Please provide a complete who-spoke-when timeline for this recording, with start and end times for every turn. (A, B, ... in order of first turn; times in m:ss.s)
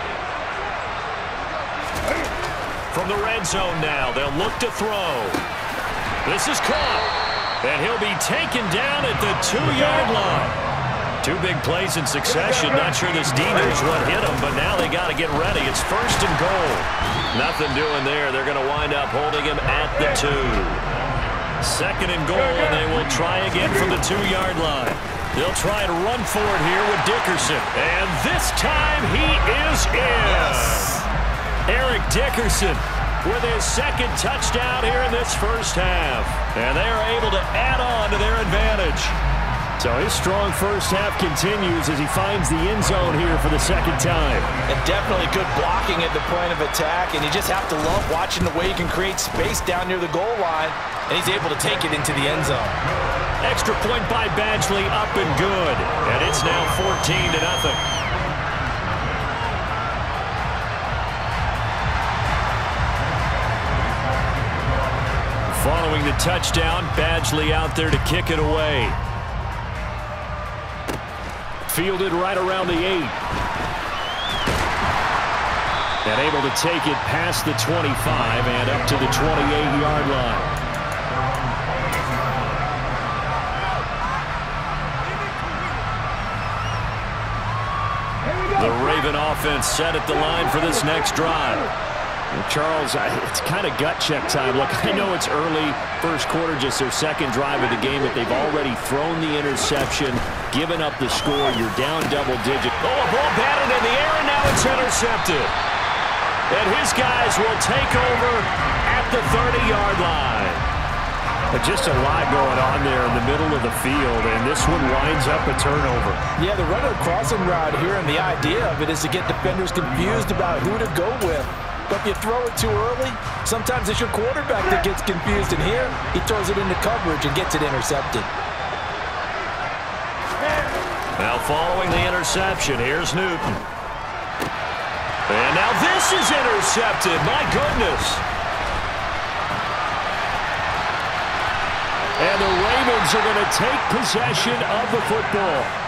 0:02.9-0:05.4 A
0:06.2-0:10.6 A
0:11.2-0:20.8 A
0:21.6-0:31.0 A
0:30.2-0:31.0 B
0:31.7-0:39.2 A
0:39.8-0:44.5 A
0:44.7-0:52.8 B
0:53.4-0:57.8 A
1:05.4-1:09.0 A
1:11.6-1:13.2 A
1:16.0-1:20.6 A
1:28.5-1:31.7 A
1:32.3-1:45.5 A
1:46.5-1:50.6 A
1:51.5-1:56.2 A
1:56.4-2:08.3 B
2:11.2-2:13.6 A
2:15.3-2:18.2 A
2:22.2-2:25.7 A